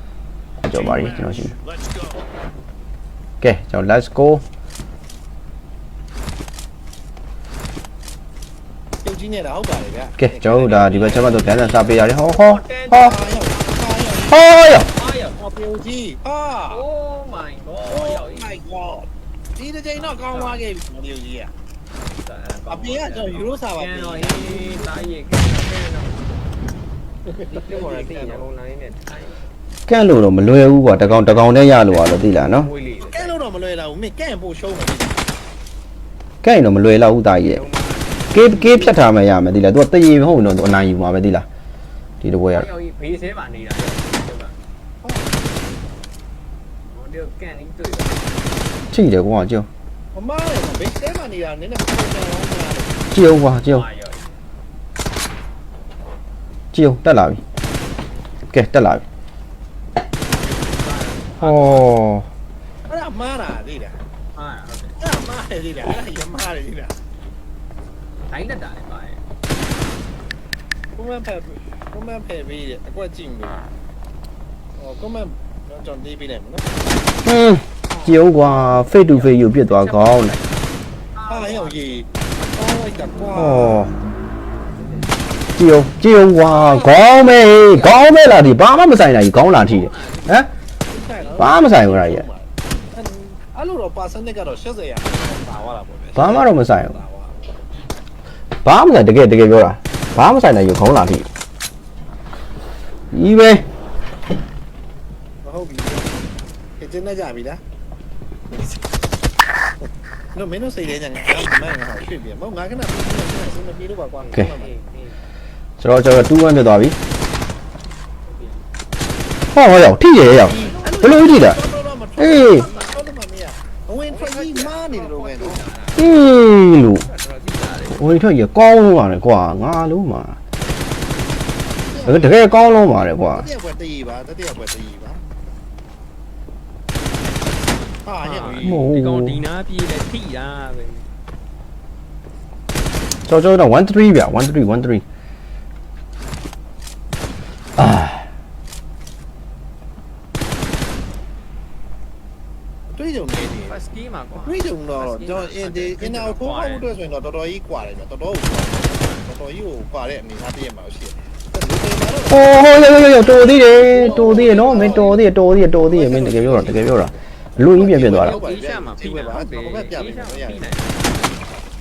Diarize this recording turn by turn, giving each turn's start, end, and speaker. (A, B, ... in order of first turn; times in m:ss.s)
0:00.6-0:01.5 A
0:00.7-0:02.1 B
0:03.4-0:04.4 A
0:09.0-0:10.6 B
0:10.2-0:13.1 A
0:10.5-0:13.8 C
0:12.9-0:14.4 B
0:14.3-0:14.9 A
0:14.8-0:15.4 C
0:15.4-0:16.8 B
0:16.7-0:18.6 C
0:17.9-0:21.5 B
0:20.0-0:20.6 C
0:22.0-0:26.3 C
0:22.7-0:24.9 B
0:27.3-0:28.5 B
0:27.5-0:29.5 C
0:29.9-0:32.7 A
0:31.0-0:33.3 C
0:33.0-0:35.3 B
0:36.4-0:37.6 A
0:37.4-0:38.6 C
0:38.3-0:41.5 A
0:42.2-0:42.7 A
0:42.5-0:44.6 C
0:45.0-0:45.4 B
0:46.9-0:48.3 C
0:48.9-0:49.7 A
0:50.1-0:53.1 B
0:53.1-0:53.8 A
0:53.6-0:54.4 C
0:56.7-0:57.4 A
0:58.5-0:59.0 A
1:00.2-1:01.9 C
1:01.4-1:02.3 A
1:02.9-1:04.0 B
1:04.3-1:05.0 C
1:05.0-1:07.0 B
1:08.3-1:09.2 C
1:11.0-1:13.7 B
1:14.8-1:16.8 B
1:17.2-1:20.4 A
1:17.9-1:22.1 C
1:21.3-1:23.9 B
1:23.3-1:23.9 A
1:24.8-1:25.2 C
1:25.6-1:30.5 A
1:26.4-1:28.2 C
1:29.3-1:30.5 C
1:30.9-1:37.5 B
1:31.4-1:32.2 A
1:36.2-1:36.9 A
1:38.6-1:41.3 A
1:43.1-1:43.7 A
1:45.4-1:46.2 B
1:46.8-1:47.6 B
1:50.3-1:54.7 B
1:54.2-1:55.2 C
1:55.8-1:57.0 A
1:58.2-1:58.7 C
1:59.5-2:01.6 A
2:00.4-2:05.6 B
2:02.2-2:02.7 A
2:02.5-2:03.1 C
2:04.1-2:06.1 C
2:06.0-2:07.1 A
2:06.8-2:08.0 C
2:07.9-2:10.4 A
2:11.8-2:12.4 B
2:12.0-2:13.5 A
2:13.3-2:15.2 B
2:18.0-2:18.8 B
2:18.2-2:21.1 C
2:18.4-2:19.4 A
2:23.3-2:25.0 A
2:27.8-2:28.3 A
2:32.9-2:33.8 B
2:33.6-2:36.9 C
2:34.4-2:42.6 B
2:42.3-2:48.4 A
2:43.2-2:45.2 B
2:44.0-2:45.0 C
2:45.9-2:47.1 B
2:47.7-2:50.8 B
2:48.1-2:51.3 C